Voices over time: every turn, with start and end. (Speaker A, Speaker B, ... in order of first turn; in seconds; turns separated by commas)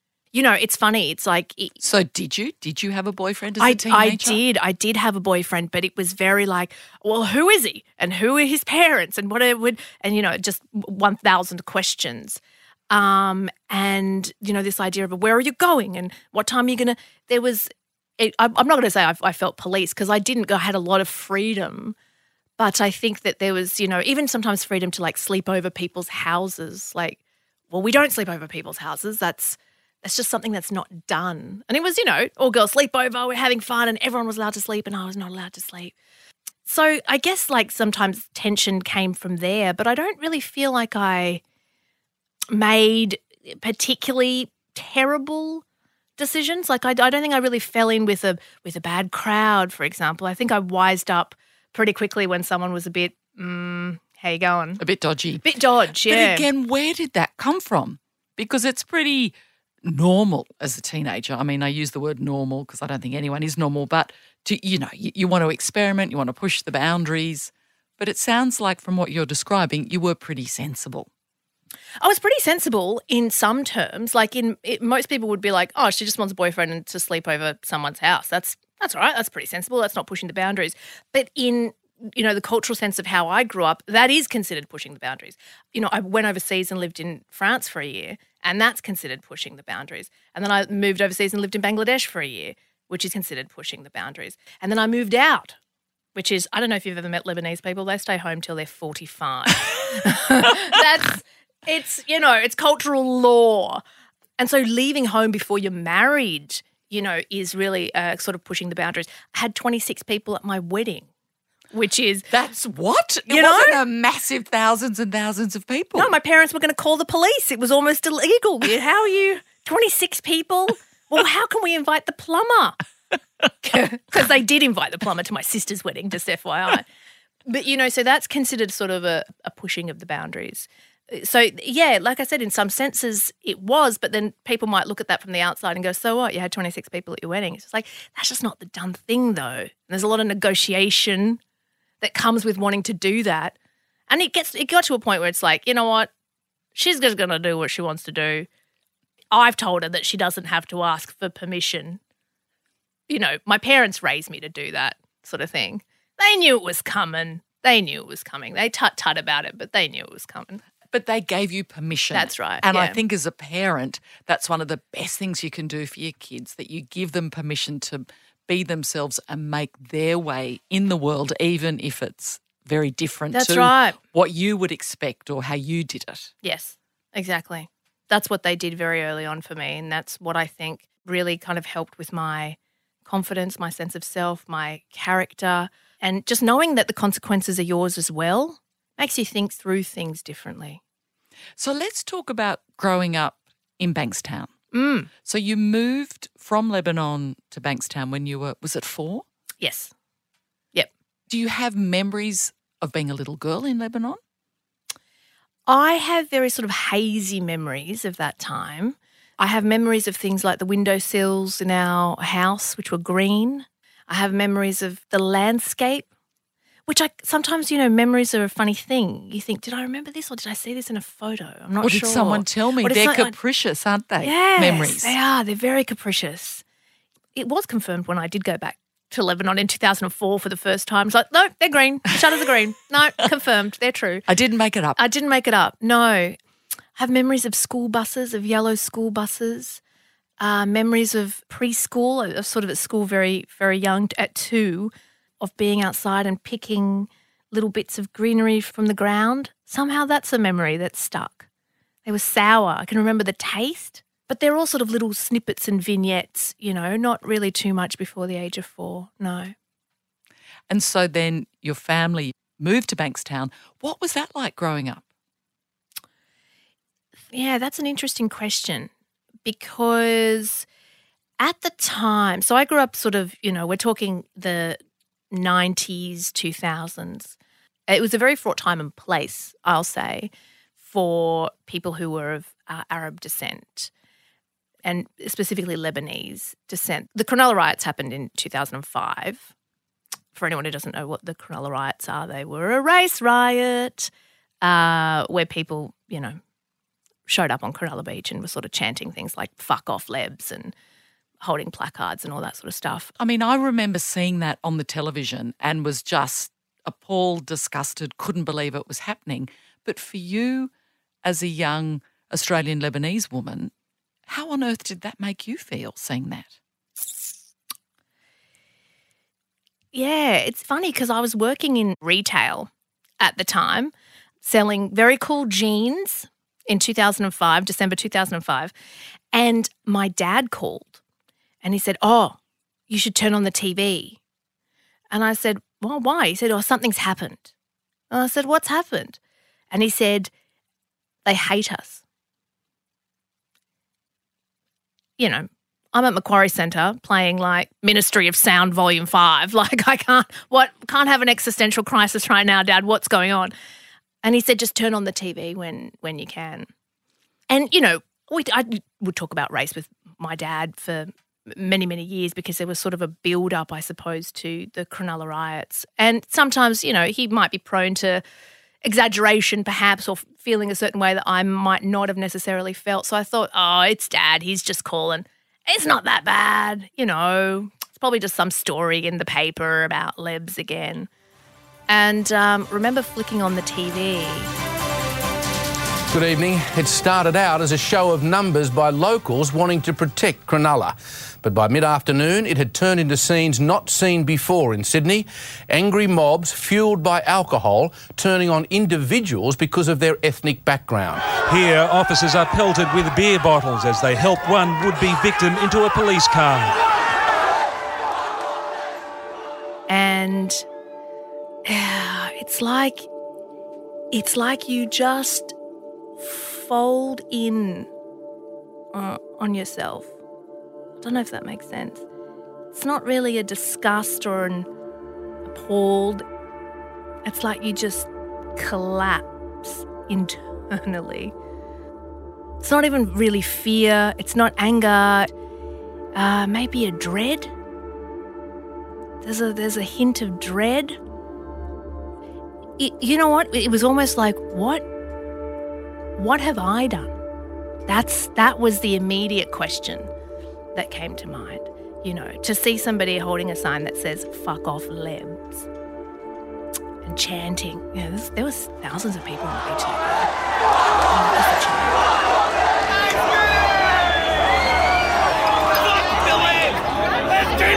Speaker A: 0.3-1.8, Speaker B: 1.8-4.4, Speaker A: 3.6-21.9, Speaker A: 22.6-27.2, Speaker A: 27.7-35.9, Speaker A: 36.6-41.4, Speaker A: 42.5-45.6, Speaker A: 46.2-54.8, Speaker B: 54.8-55.5, Speaker A: 55.4-56.5, Speaker B: 56.0-71.1, Speaker A: 72.0-95.6, Speaker A: 96.1-103.8, Speaker A: 104.4-111.1, Speaker A: 111.7-112.3, Speaker B: 112.3-116.1, Speaker A: 113.3-113.8, Speaker A: 115.9-122.8, Speaker A: 123.6-126.9, Speaker A: 127.5-141.4, Speaker A: 142.0-143.5, Speaker A: 144.1-146.1, Speaker A: 146.7-148.5, Speaker A: 149.3-152.0, Speaker A: 153.1-160.6, Speaker B: 160.9-176.3, Speaker A: 162.1-163.0, Speaker A: 173.3-174.0, Speaker A: 176.4-190.8, Speaker B: 191.6-194.5, Speaker A: 194.7-195.1, Speaker B: 195.2-199.2, Speaker A: 199.6-199.9, Speaker B: 201.3-204.2, Speaker A: 205.7-216.1, Speaker A: 216.9-223.3, Speaker B: 221.8-225.1, Speaker A: 224.2-226.6, Speaker A: 227.3-234.2, Speaker B: 234.3-235.0, Speaker A: 235.0-236.4, Speaker A: 236.9-239.8, Speaker A: 240.4-251.5, Speaker A: 252.0-259.5, Speaker B: 260.7-265.0, Speaker A: 267.3-268.9, Speaker A: 269.4-270.6, Speaker A: 271.4-274.8, Speaker A: 275.3-277.4, Speaker A: 277.9-280.3, Speaker A: 280.8-283.9, Speaker A: 284.8-289.5, Speaker A: 290.3-296.4, Speaker A: 297.2-300.7, Speaker A: 301.4-303.1, Speaker B: 303.2-310.7, Speaker B: 311.2-313.7, Speaker B: 314.3-316.5, Speaker A: 319.9-328.7, Speaker A: 329.3-331.0, Speaker A: 331.6-332.4, Speaker A: 332.9-334.2, Speaker A: 335.1-337.5, Speaker A: 338.1-339.2, Speaker A: 339.7-340.3, Speaker A: 341.2-342.0, Speaker A: 345.2-353.5, Speaker A: 354.2-356.7, Speaker A: 357.5-368.2, Speaker A: 368.8-381.1, Speaker A: 381.9-384.5, Speaker C: 386.1-401.3, Speaker D: 401.3-406.8, Speaker A: 409.9-410.6, Speaker A: 411.7-413.1, Speaker A: 414.1-415.5, Speaker A: 416.2-417.9, Speaker A: 418.9-420.1, Speaker A: 421.0-422.0, Speaker A: 422.7-424.7, Speaker A: 425.4-426.2, Speaker A: 427.2-431.3, Speaker A: 432.6-435.3, Speaker A: 436.1-437.5, Speaker A: 439.2-441.0, Speaker A: 442.8-444.8, Speaker A: 446.2-447.2, Speaker A: 447.9-450.1, Speaker A: 450.7-455.7, Speaker A: 457.0-460.3, Speaker A: 461.1-462.0